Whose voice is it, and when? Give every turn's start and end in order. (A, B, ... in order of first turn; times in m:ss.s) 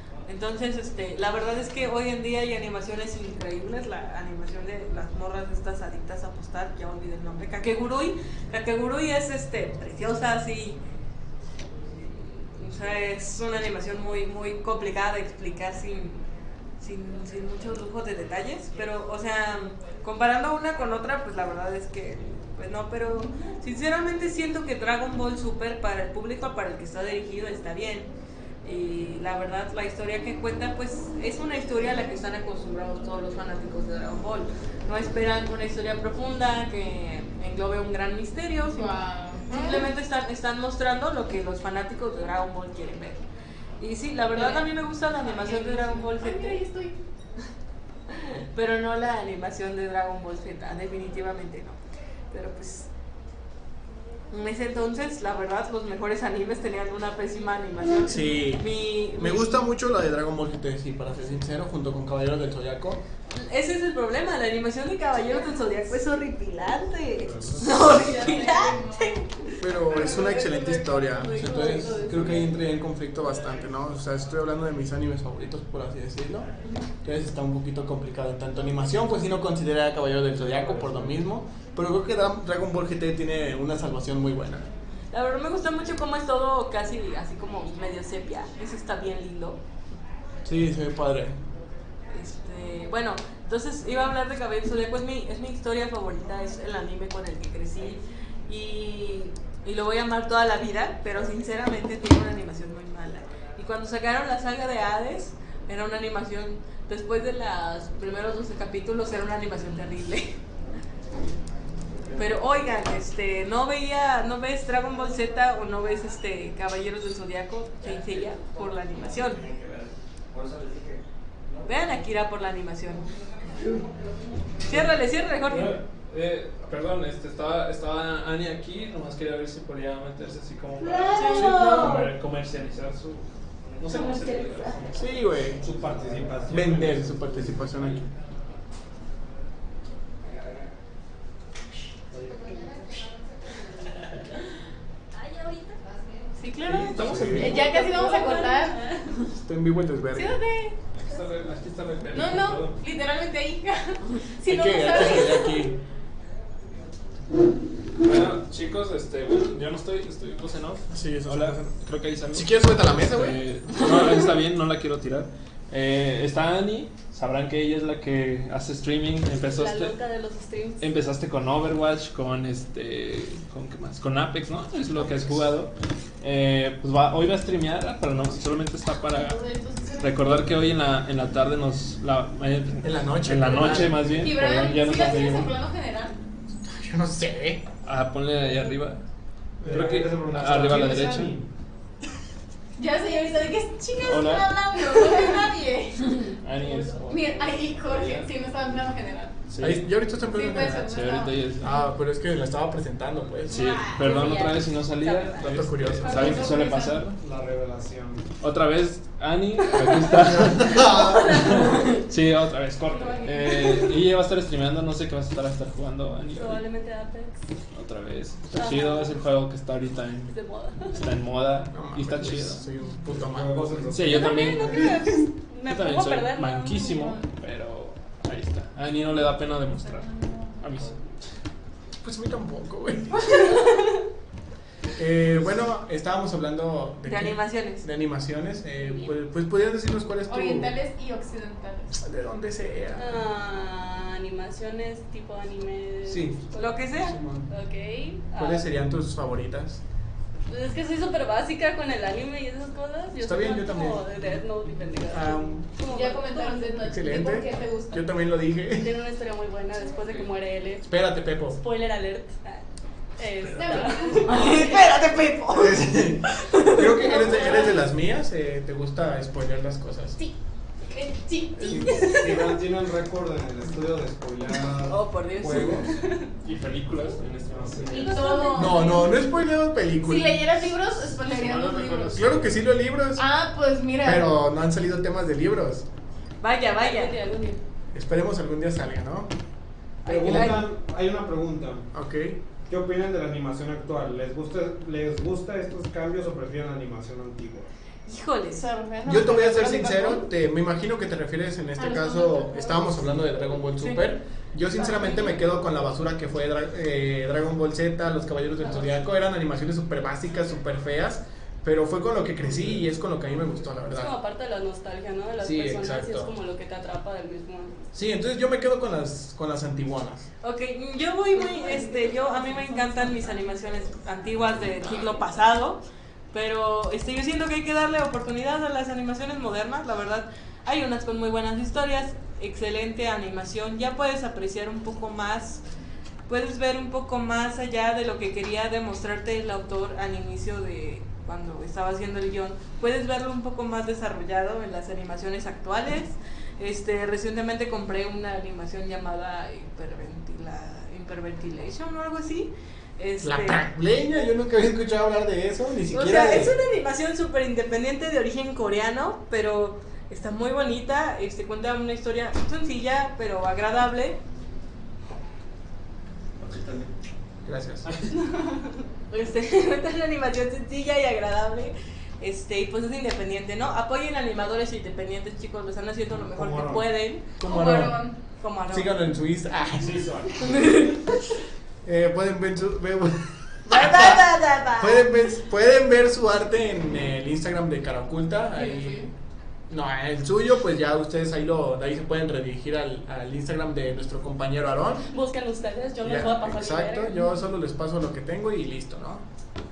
0:00.2-0:10.8 A
0:12.0-0:16.2 A
0:16.8-0:28.1 A
0:28.6-0:43.2 A
0:38.7-0:39.9 B
0:43.8-0:46.6 A
0:44.3-0:44.7 B
0:45.3-0:47.0 B
0:48.1-0:51.8 A
0:52.3-0:52.9 A
0:54.3-0:59.6 A
0:58.0-1:03.0 C
1:03.3-1:09.2 A
1:07.2-1:08.0 D
1:07.8-1:09.3 B
1:09.6-1:16.5 C
1:10.2-1:12.5 E
1:11.3-1:12.1 B
1:17.0-1:24.7 C
1:20.6-1:21.2 D
1:25.1-1:29.6 A
1:30.4-1:31.4 C
1:32.1-1:50.4 A
1:52.1-1:59.5 A
2:01.6-2:03.1 A
2:03.6-2:03.8 F
2:04.6-2:05.8 A
2:04.7-2:15.0 F
2:10.8-2:12.1 B
2:11.1-2:11.6 A
2:11.3-2:12.1 C
2:13.8-2:14.7 B
2:14.9-2:15.6 C
2:15.6-2:17.6 D
2:16.5-2:18.0 C
2:22.1-2:22.5 F
2:25.2-2:25.7 B
2:26.4-2:29.0 B
2:26.6-2:27.7 F
2:27.0-2:27.6 C
2:27.6-2:29.0 E
2:29.3-2:30.4 C
2:30.1-2:30.7 B
2:30.9-2:32.8 F
2:32.1-2:35.7 B
2:34.4-2:35.8 C
2:38.0-2:49.9 F
2:40.9-2:41.7 C
2:42.3-2:43.4 C
2:49.3-2:50.9 E
2:50.8-2:59.4 F
2:59.1-3:00.4 B
3:00.0-3:05.6 F
3:02.8-3:04.2 C
3:03.5-3:06.2 B
3:06.6-3:07.6 C
3:07.8-3:09.0 F
3:09.6-3:10.7 C
3:09.6-3:11.4 F
3:09.6-3:11.4 D
3:10.9-3:11.3 B
3:12.8-3:19.3 B
3:14.0-3:14.7 F
3:16.4-3:18.3 F
3:19.5-3:19.9 F
3:19.6-3:23.7 C
3:20.3-3:21.4 B
3:20.8-3:21.8 F
3:23.5-3:27.2 F
3:23.5-3:24.4 B
3:24.0-3:25.7 E
3:25.4-3:26.5 C
3:26.0-3:27.1 B
3:27.2-3:28.3 D
3:28.4-3:36.6 F
3:30.4-3:31.2 C
3:30.8-3:31.7 B
3:31.0-3:31.9 E
3:32.8-3:34.0 B
3:36.3-3:37.4 E
3:37.7-3:40.3 F
3:38.5-3:39.2 E
3:40.3-3:41.1 E
3:40.9-3:42.6 F
3:41.7-3:45.1 C
3:43.1-3:44.9 D
3:43.9-3:45.1 F
3:44.1-3:47.1 E
3:45.6-3:51.0 F
3:49.8-3:50.6 B
3:52.0-3:53.6 C
3:55.0-4:00.8 C
3:57.0-3:57.8 A
4:00.2-4:02.0 B
4:02.0-4:03.2 C
4:02.9-4:06.8 E
4:06.0-4:06.4 C
4:06.5-4:07.2 A
4:07.0-4:07.5 C
4:07.5-4:08.7 E
4:08.3-4:09.8 C
4:10.5-4:16.8 E
4:13.2-4:14.2 C
4:15.1-4:15.6 C
4:15.8-4:18.1 B
4:16.8-4:19.0 C
4:18.8-4:20.9 E
4:20.8-4:21.6 C
4:21.5-4:22.7 E
4:23.2-4:24.5 E
4:23.5-4:24.9 B
4:24.2-4:26.9 A
4:25.5-4:30.2 C
4:26.9-4:27.7 B
4:30.9-4:32.3 B
4:31.6-4:35.9 D
4:32.0-4:32.5 E
4:34.8-4:35.9 A
4:36.4-4:38.2 F
4:37.5-4:38.3 D
4:37.9-4:39.4 B
4:38.5-4:40.7 C
4:40.0-4:42.2 B
4:41.0-4:42.5 F
4:42.1-4:43.3 C
4:43.1-4:44.4 B
4:44.0-4:45.8 C
4:46.4-4:47.2 A
4:46.8-4:47.6 E
4:47.9-4:49.3 C
4:50.0-4:50.7 A
4:50.0-4:51.9 D
4:50.2-4:50.6 C
4:51.9-4:52.4 C
4:52.7-4:57.7 D
4:58.0-4:58.6 A
4:58.5-5:00.3 B
4:59.0-5:14.1 C
5:01.8-5:03.0 B
5:03.8-5:04.0 A
5:04.7-5:05.4 B
5:13.9-5:17.8 E
5:15.4-5:16.3 C
5:17.9-5:20.2 C
5:20.4-5:35.6 A
5:36.3-5:53.6 A
5:53.2-5:56.5 C
5:55.9-6:04.2 A
6:07.4-6:07.9 C
6:09.1-6:17.2 A
6:16.2-6:16.9 D
6:17.4-6:18.1 C
6:17.4-6:18.2 B
6:18.4-6:18.9 A
6:18.7-6:20.1 C
6:19.9-6:20.3 D
6:20.4-6:21.2 A
6:21.8-6:29.1 C
6:23.6-6:25.1 A
6:28.5-6:29.1 B
6:29.7-6:35.1 C
6:35.1-6:37.3 E
6:36.0-6:39.2 C